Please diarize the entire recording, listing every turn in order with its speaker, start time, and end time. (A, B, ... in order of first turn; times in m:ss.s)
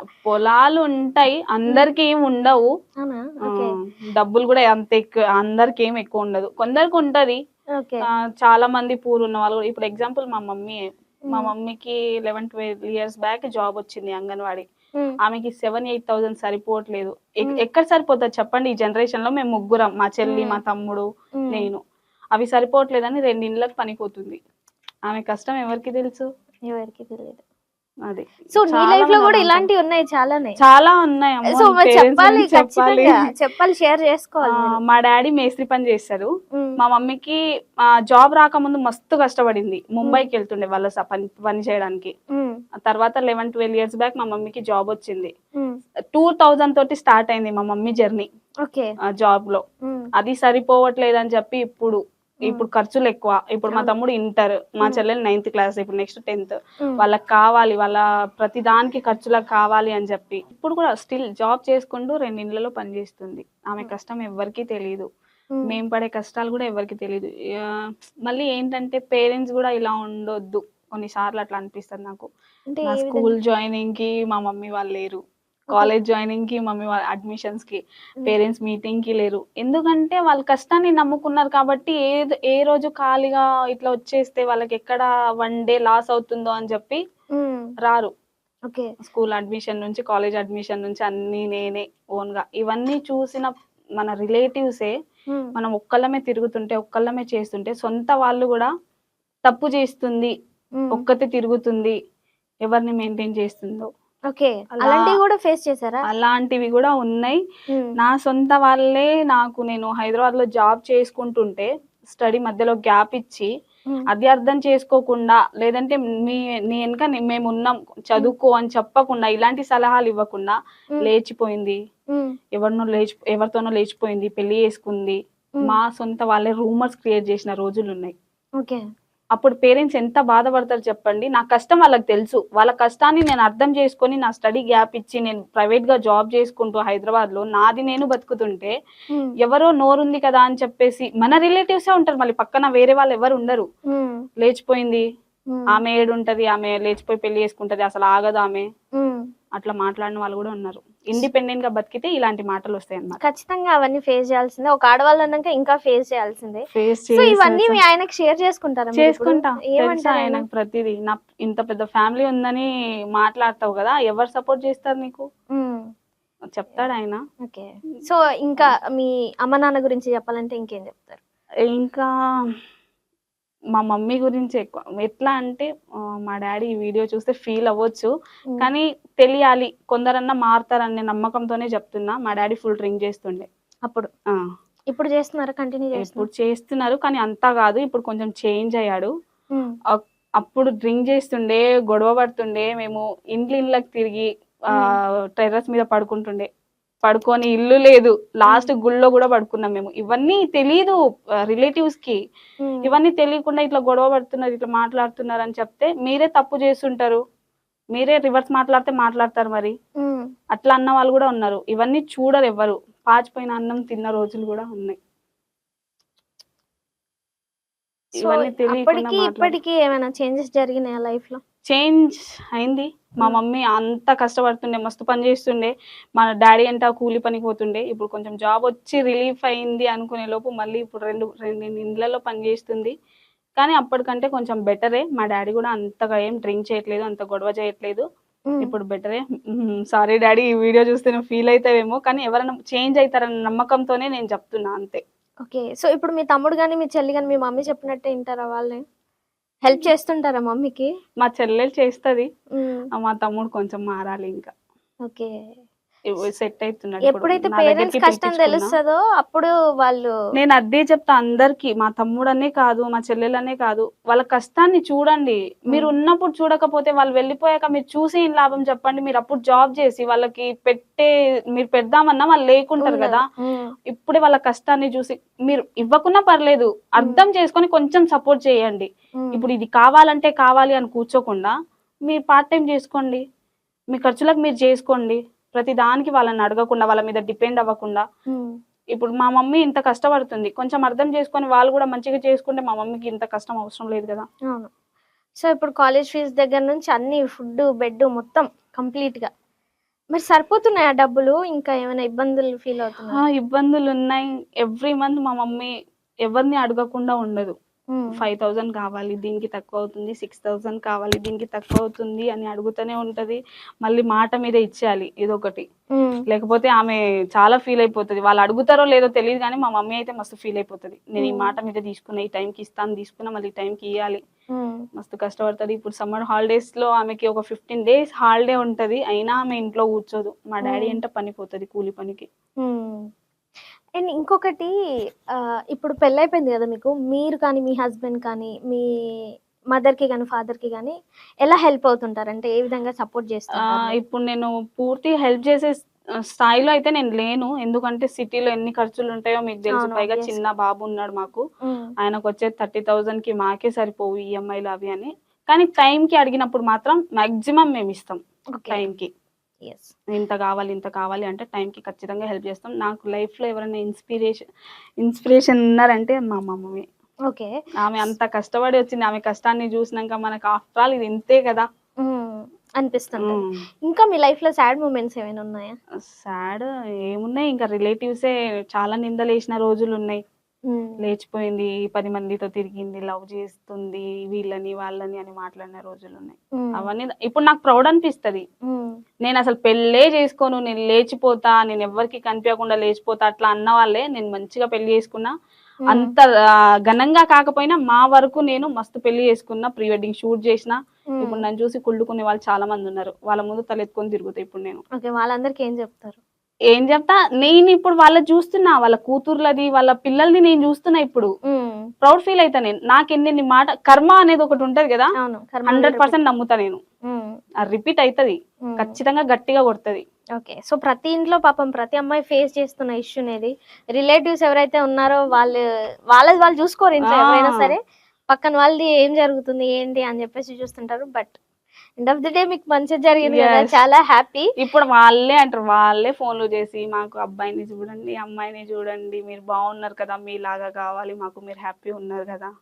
0:00.2-0:02.6 A
0:03.0-0:03.7 B
0:03.5-0:07.4 A
0:07.8-0:08.0 B
0:08.4-0:10.8 A
0:11.3-0:14.7 A
0:15.2-0:21.8 A
0:20.3-0:20.6 B
0:21.4-0:21.7 B
0:22.4-0:24.4 A
0:25.1-0:26.3 A
0:26.7-0:27.4 B
0:28.1-0:29.7 A
0:28.6-0:30.6 B
0:30.6-0:33.2 A
0:31.5-0:34.8 B
0:34.6-0:37.4 A
0:38.1-0:42.1 A
0:42.3-0:42.6 B
0:42.9-0:45.3 A
0:46.1-0:48.3 A
0:49.1-0:49.6 A
0:49.8-0:50.1 B
0:50.2-1:05.1 A
1:05.7-1:07.8 A
1:08.3-1:12.3 A
1:12.7-1:13.3 B
1:12.8-1:15.2 A
1:15.7-1:27.0 A
1:27.4-1:27.7 B
1:27.8-1:28.1 A
1:29.0-1:34.9 A
1:35.6-1:38.7 A
1:39.5-1:40.3 A
1:40.8-1:41.0 B
1:40.9-1:42.0 A
1:42.7-1:43.9 A
1:44.3-1:46.0 B
1:44.8-1:45.2 A
1:46.1-1:47.4 A
1:48.0-1:53.5 A
1:54.1-2:01.8 A
2:02.6-2:08.2 A
2:09.4-2:18.8 A
2:19.4-2:23.6 A
2:23.9-2:24.2 B
2:24.4-2:25.0 A
2:25.5-2:25.8 B
2:25.7-2:28.7 A
2:29.0-2:29.3 B
2:29.6-2:33.2 A
2:33.2-2:40.4 B
2:36.7-2:37.8 A
2:39.0-2:45.2 A
2:45.6-2:45.8 B
2:46.6-2:47.2 A
2:47.4-2:51.2 B
2:51.7-2:52.1 A
2:53.8-2:55.7 A
2:56.2-3:03.5 A
3:04.9-3:06.3 B
3:06.0-3:09.1 A
3:09.9-3:16.5 A
3:17.1-3:22.2 A
3:22.6-3:22.9 B
3:22.8-3:27.2 A
3:28.0-3:29.8 A
3:30.0-3:30.3 B
3:30.6-3:35.0 A
3:38.2-3:41.4 B
3:38.2-3:39.5 A
3:41.7-3:52.9 A
3:53.6-3:58.0 A
3:58.6-4:05.0 A
4:05.4-4:08.8 B
4:09.6-4:10.9 B
4:11.2-4:12.3 A
4:12.6-4:12.9 B
4:13.0-4:14.5 A
4:15.1-4:15.3 B
4:16.1-4:18.8 A
4:17.0-4:20.1 B
4:20.4-4:33.2 A
4:32.8-4:33.7 B
4:33.9-4:41.6 A
4:39.2-4:39.5 B
4:42.1-4:43.2 A
4:43.9-4:48.0 A
4:48.9-4:54.3 A
4:55.4-4:59.3 B
5:00.1-5:03.2 B
5:03.1-5:05.7 A
5:06.3-5:07.6 A
5:08.1-5:15.7 A
5:16.0-5:16.2 B
5:16.3-5:24.2 A
5:21.2-5:21.5 B
5:24.5-5:24.8 B
5:25.0-5:32.3 A
5:30.6-5:31.0 B
5:32.6-5:33.1 B
5:34.0-5:34.7 B
5:35.4-5:38.8 B
5:39.8-5:44.0 B
5:43.7-5:45.7 A
5:46.3-5:51.4 A
5:49.7-5:50.4 B
5:51.6-5:51.9 B
5:52.0-5:59.1 A
5:58.6-5:58.9 B
5:59.6-6:00.0 B
6:00.1-6:04.4 A
6:05.0-6:06.8 A
6:07.8-6:11.7 A
6:12.0-6:15.8 B
6:13.2-6:13.6 A
6:16.1-6:20.2 A
6:20.7-6:21.0 B
6:21.0-6:28.4 A
6:26.6-6:26.9 B
6:28.7-6:29.0 B
6:29.2-6:35.3 A
6:35.9-6:36.1 B
6:35.9-6:36.3 A
6:36.9-6:44.8 A
6:41.1-6:41.4 B
6:45.0-6:46.2 B
6:46.7-6:51.3 A
6:51.5-6:51.9 B
6:52.0-6:55.1 A
6:55.2-6:56.2 B
6:55.7-6:56.8 A
6:57.1-6:57.4 B
6:57.6-7:00.0 A
6:58.7-6:59.0 B
7:00.4-7:05.6 B
7:06.1-7:07.8 B
7:07.0-7:07.7 A
7:08.3-7:11.4 B
7:12.0-7:14.5 B
7:13.3-7:13.8 A
7:14.6-7:22.5 A